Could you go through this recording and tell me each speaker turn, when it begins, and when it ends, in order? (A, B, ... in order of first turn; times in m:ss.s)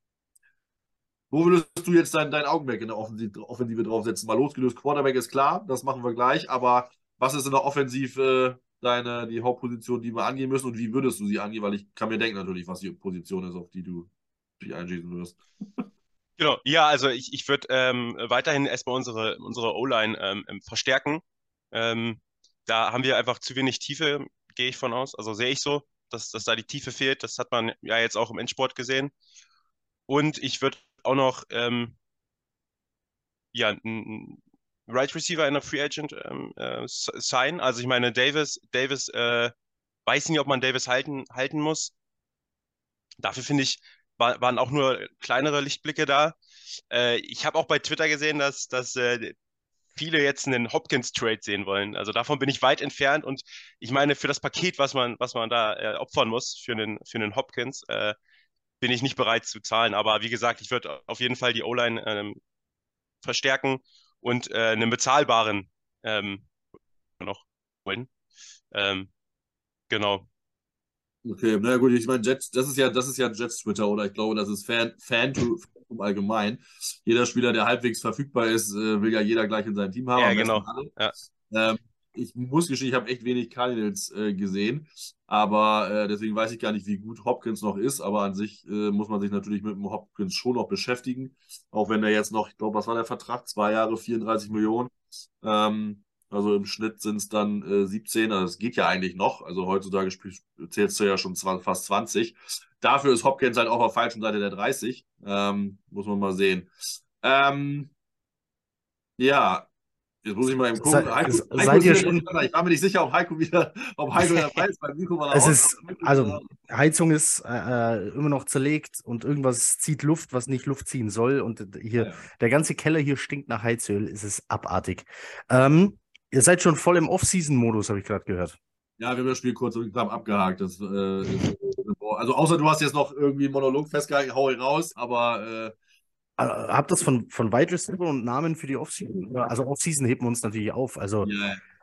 0:01.3-0:15.8 A
0:16.4-0:29.1 B
0:30.1-0:31.9 B
0:33.5-0:39.5 B
0:40.0-0:41.9 B
0:43.2-0:46.4 B
0:46.9-0:49.3 B
0:49.9-0:58.1 B
0:58.8-1:02.4 B
1:03.2-1:06.5 B
1:07.2-1:08.1 B
1:08.7-1:09.1 B
1:09.9-1:10.3 B
1:11.2-1:20.9 A
1:20.2-1:21.1 B
1:21.5-1:46.7 A
1:47.2-1:47.9 A
1:49.2-1:49.7 A
1:50.2-1:56.5 A
1:50.8-1:52.2 C
1:54.2-1:54.6 C
1:55.3-2:08.6 C
2:02.0-2:02.3 A
2:09.0-2:15.7 A
2:16.4-2:21.3 C
2:21.2-2:21.6 A